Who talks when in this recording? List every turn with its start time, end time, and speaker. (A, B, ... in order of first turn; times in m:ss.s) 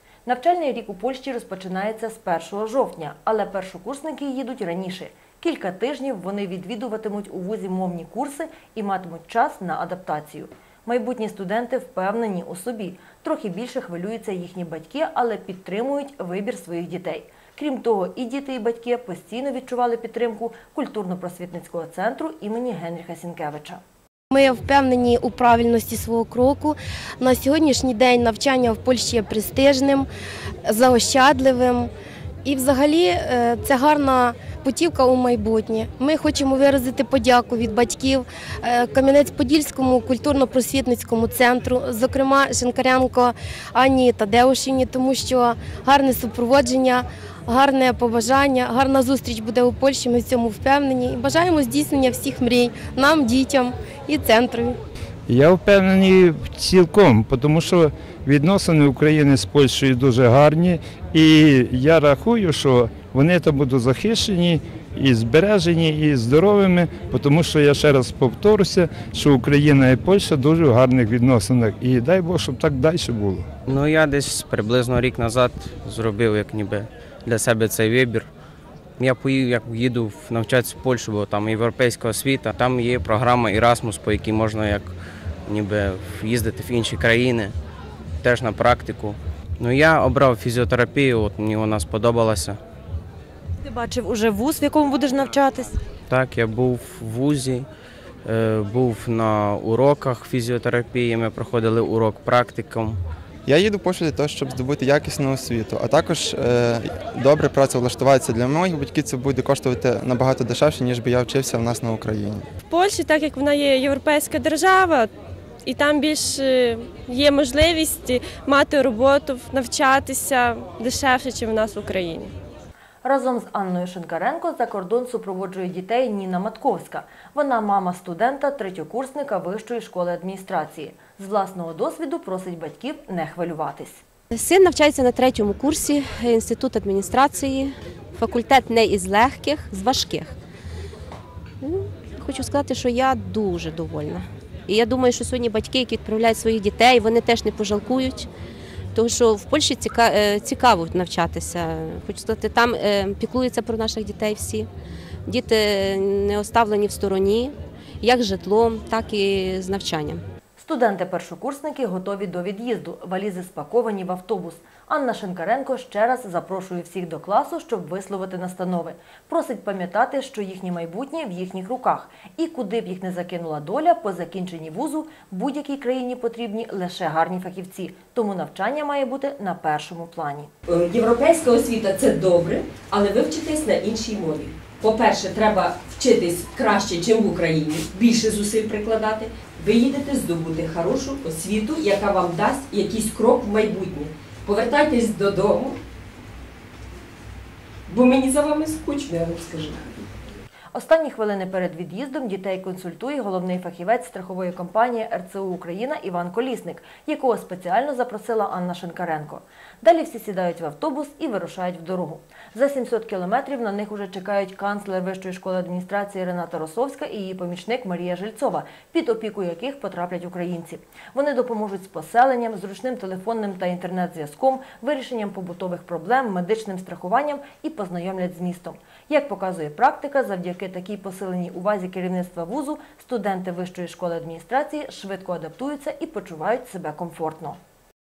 0:00.3-0:23.8 A
0:24.3-0:30.1 B
0:30.6-0:31.9 B
0:32.4-0:54.8 B
0:55.3-1:13.5 C
1:13.7-1:18.3 D
1:19.0-1:24.9 D
1:25.5-1:27.6 D
1:28.2-1:32.6 D
1:33.6-1:35.8 A
1:36.1-1:37.7 D
1:38.2-1:43.0 D
1:43.5-1:52.5 E
1:52.6-1:55.1 F
1:55.6-2:02.3 F
2:03.0-2:14.0 A
2:14.3-2:20.3 G
2:21.6-2:28.3 G
2:29.0-2:34.7 G
2:35.3-2:40.2 G
2:40.6-3:00.5 A
3:00.7-3:15.8 H
3:17.9-3:19.9 H
3:20.7-3:57.6 A